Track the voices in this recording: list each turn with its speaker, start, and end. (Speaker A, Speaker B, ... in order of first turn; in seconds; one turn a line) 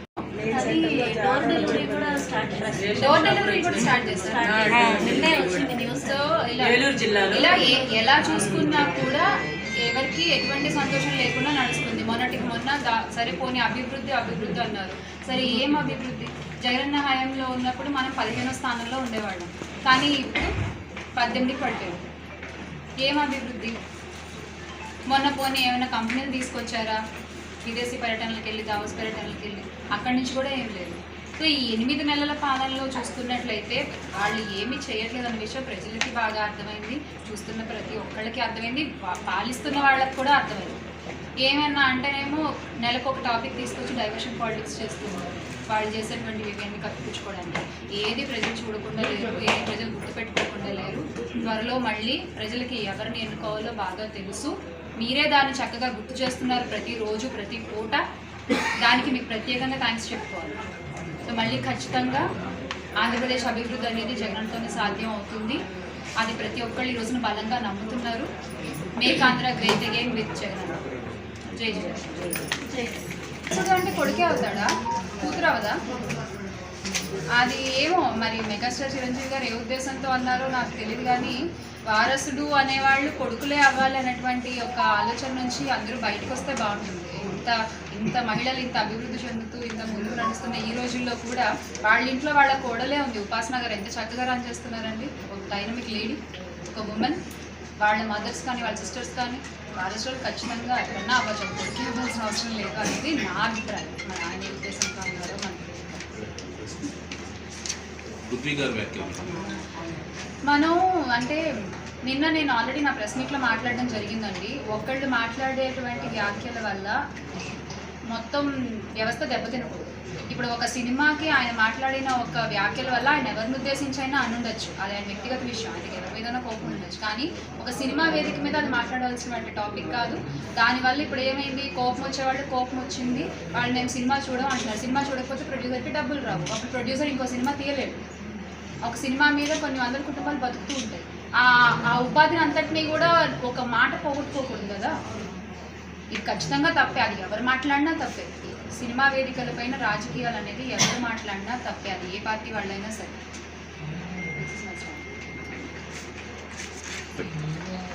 Speaker A: 0.4-3.8
Speaker B: 3.0-9.3
Speaker A: 4.3-6.0
Speaker B: 9.8-20.5
Speaker B: 21.2-22.0
Speaker B: 23.0-23.8
Speaker B: 25.1-27.0
Speaker B: 27.6-40.8
Speaker B: 41.4-58.0
Speaker B: 58.8-60.5
Speaker B: 61.3-62.3
Speaker B: 63.0-65.6
Speaker B: 66.2-68.3
Speaker B: 69.0-70.8
Speaker B: 71.5-72.5
Speaker A: 72.7-73.0
Speaker B: 73.5-75.8
Speaker B: 77.4-97.2
Speaker B: 97.8-106.0
Speaker C: 106.1-106.9
Speaker C: 108.2-109.5
Speaker B: 110.5-111.4
Speaker B: 112.1-117.0
Speaker B: 118.1-138.0
Speaker B: 138.8-145.0
Speaker B: 146.1-153.2
Speaker B: 154.3-155.1